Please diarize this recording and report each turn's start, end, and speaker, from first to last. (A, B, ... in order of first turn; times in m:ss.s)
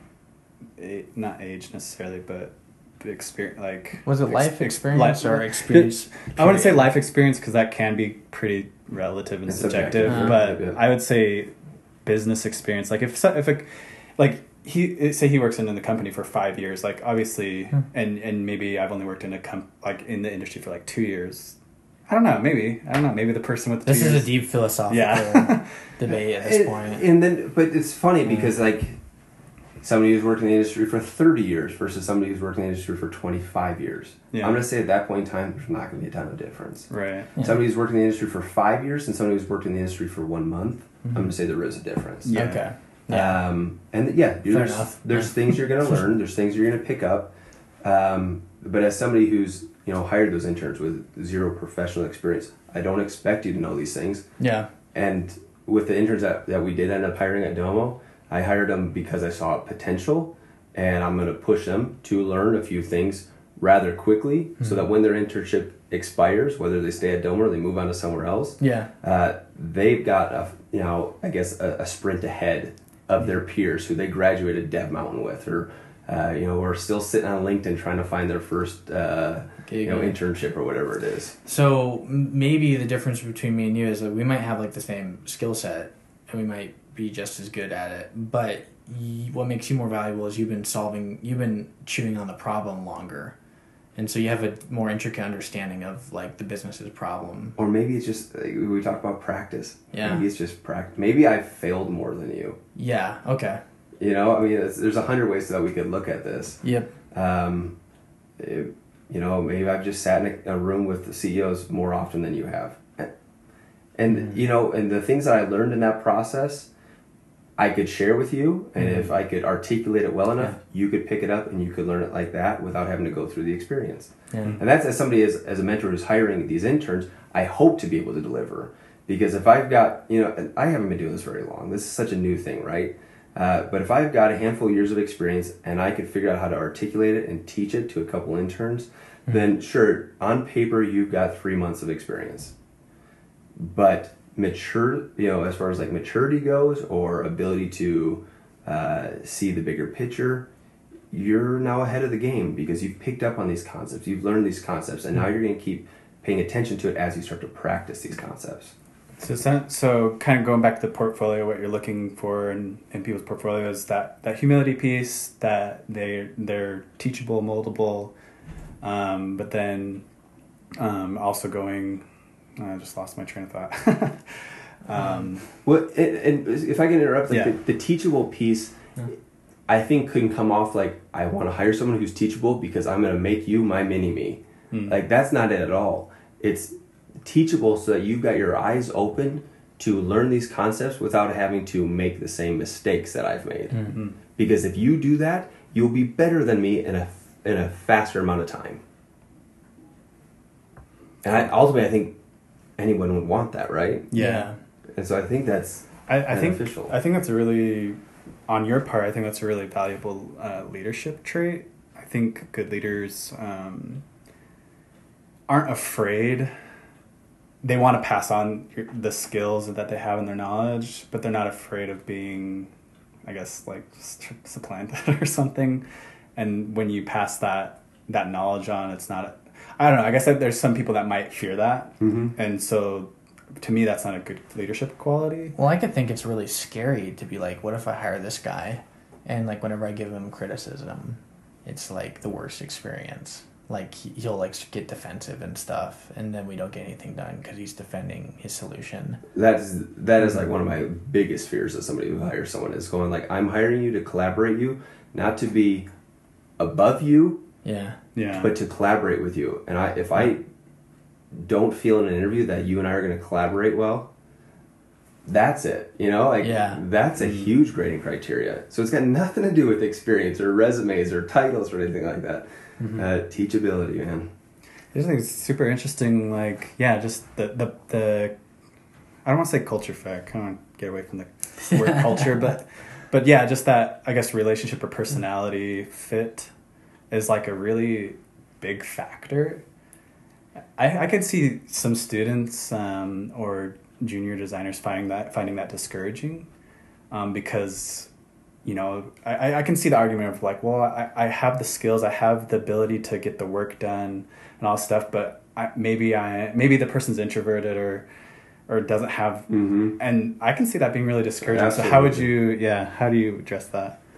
0:00.8-0:11.5 A
0:04.0-0:06.9 B
0:09.5-0:10.8 C
0:10.1-0:10.4 B
0:12.0-0:21.6 A
0:22.1-0:24.3 A
0:23.8-0:27.0 B
0:24.9-0:25.7 A
0:26.4-0:29.0 C
0:29.8-0:42.4 C
0:34.3-0:34.6 A
0:36.9-0:37.3 A
0:41.0-0:41.3 B
0:42.2-0:42.6 A
0:42.3-0:43.4 B
0:43.1-0:47.3 C
0:44.5-0:45.5 B
0:47.8-0:54.3 C
0:54.4-0:54.7 B
0:54.9-1:21.4 C
1:08.6-1:08.9 B
1:19.7-1:20.2 B
1:21.4-1:33.4 B
1:34.0-1:37.6 B
1:37.6-1:42.6 C
1:39.9-1:40.3 B
1:42.8-1:43.6 B
1:44.0-1:46.6 C
1:46.6-1:46.9 B
1:47.1-1:47.8 C
1:48.4-1:53.1 C
1:54.0-1:56.7 C
1:57.6-2:22.5 C
1:58.8-1:59.1 B
2:04.3-2:04.6 B
2:23.6-2:30.5 C
2:31.1-2:38.7 C
2:39.2-2:48.1 A
2:48.8-2:50.0 A
2:50.8-2:52.0 A
2:52.6-2:55.5 A
2:55.6-2:58.8 C
2:57.3-2:57.6 A
2:59.7-3:18.8 C
3:04.7-3:05.0 A
3:21.2-3:22.2 C
3:22.8-3:24.1 C
3:24.1-3:24.5 A
3:24.2-3:24.6 B
3:24.9-3:26.9 C
3:26.1-3:34.0 A
3:35.5-3:36.5 A
3:37.6-3:42.7 A
3:43.2-3:45.8 A
3:46.4-3:55.6 A
3:52.0-3:52.3 C
3:55.6-4:09.2 B
4:09.3-4:15.9 C
4:16.6-4:17.4 C
4:17.6-4:18.0 B
4:18.2-4:18.5 A
4:18.3-4:20.4 C
4:21.3-4:24.1 C
4:25.2-4:34.3 C
4:26.4-4:26.8 B
4:32.8-4:33.1 B
4:34.9-4:38.3 A
4:39.2-4:46.5 A
4:47.1-4:49.6 A
4:50.8-4:56.5 A
4:57.1-4:58.1 A
4:58.6-5:08.1 A
5:08.7-5:14.0 A
5:09.5-5:09.9 C
5:11.4-5:12.3 C